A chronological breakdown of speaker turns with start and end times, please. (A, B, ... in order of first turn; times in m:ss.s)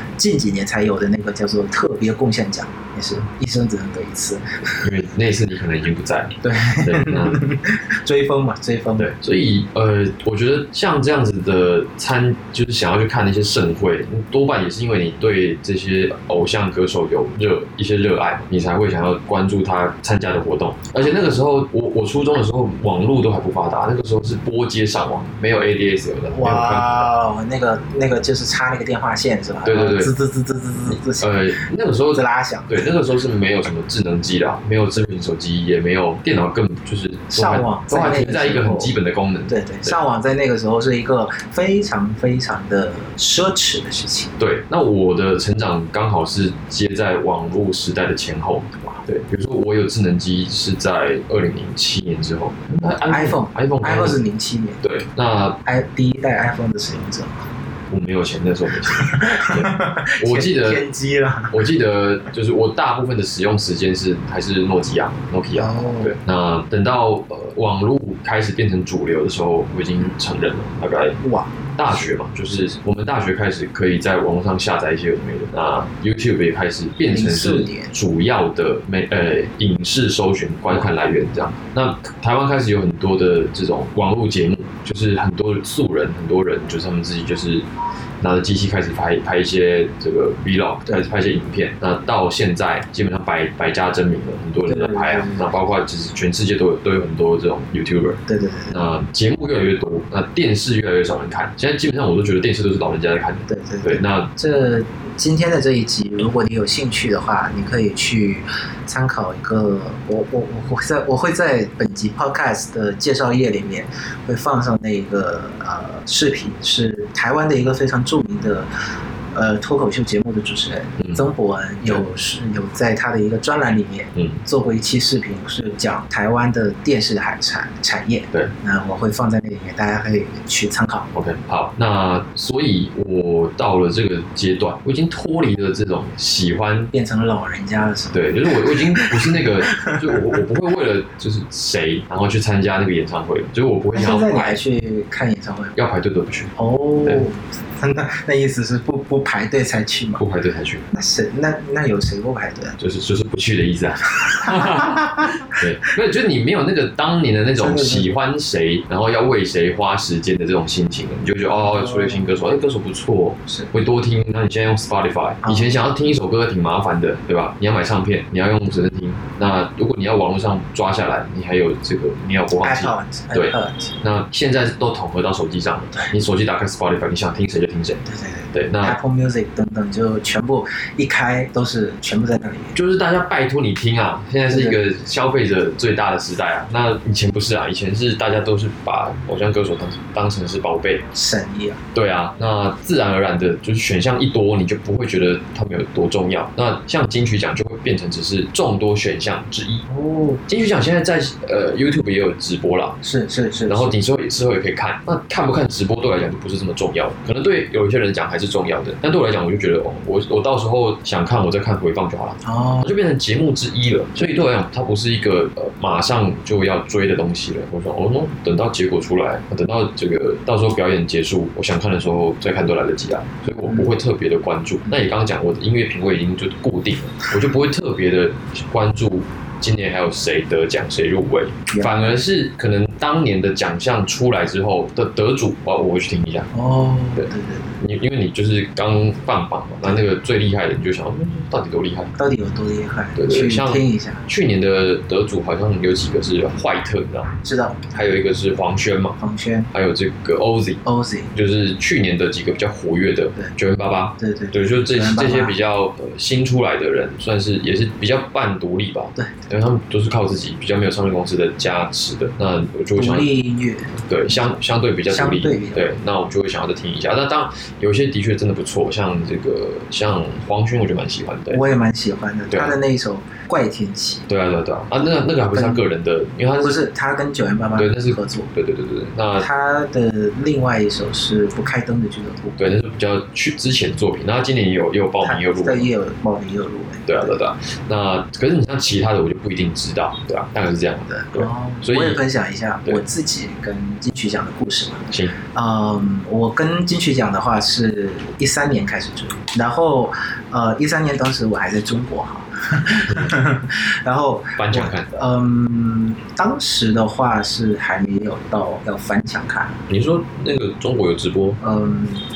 0:00.2-0:04.9 A
0:04.8-0:07.4 B
0:06.4-0:09.1 A
0:09.0-0:27.1 B
0:26.3-0:31.5 A
0:29.6-0:30.1 B
0:30.9-0:40.0 B
0:32.1-0:33.0 A
0:37.3-0:38.9 A
0:39.5-0:44.4 A
0:44.4-0:54.2 B
0:53.0-0:54.8 A
0:54.8-0:55.6 B
0:55.6-0:57.4 A
0:57.9-1:00.9 B
0:58.9-1:01.6 A
1:01.5-1:11.2 B
1:05.6-1:06.2 A
1:11.2-1:11.6 A
1:11.8-1:27.7 B
1:17.1-1:17.9 A
1:28.2-1:44.3 B
1:34.7-1:35.5 A
1:38.3-1:38.8 A
1:43.5-1:58.7 A
1:59.3-2:11.1 A
2:04.2-2:04.4 B
2:11.1-2:16.9 B
2:16.9-2:20.4 A
2:18.1-2:24.6 B
2:23.9-2:25.8 A
2:25.8-2:26.5 B
2:26.6-2:30.2 A
2:30.2-2:30.9 B
2:30.9-2:32.8 A
2:32.8-2:59.0 B
2:34.2-2:35.9 A
2:37.6-2:38.1 A
2:41.6-2:42.2 A
2:45.4-2:45.7 A
2:52.6-2:54.0 A
2:58.0-3:02.8 A
3:02.8-3:11.1 B
3:04.5-3:04.8 A
3:11.1-3:11.8 A
3:11.9-3:19.8 B
3:19.9-3:20.4 A
3:20.5-3:23.0 B
3:23.0-3:24.0 A
3:23.7-3:56.5 B
3:32.4-3:32.9 A
3:51.7-3:52.2 A
3:56.5-3:57.8 A
3:57.8-4:02.1 B
4:02.2-4:04.2 A
4:03.2-4:07.3 B
4:07.4-4:07.8 A
4:07.9-4:09.2 B
4:09.2-4:09.7 A
4:09.7-4:10.8 B
4:10.8-4:11.3 A
4:11.3-4:23.3 B
4:14.2-4:15.6 A
4:23.0-4:24.4 A
4:24.0-4:31.6 B
4:25.1-4:25.9 A
4:31.5-4:34.3 A
4:34.3-4:36.8 B
4:35.5-4:35.8 A
4:36.6-4:38.5 A
4:37.8-4:39.5 B
4:39.4-4:42.7 A
4:42.6-4:45.9 B
4:45.2-4:47.2 A
4:47.1-4:52.2 B
4:51.1-5:09.8 A
5:03.1-5:03.4 B
5:04.6-5:05.1 B
5:09.9-5:11.6 B
5:11.6-5:12.2 A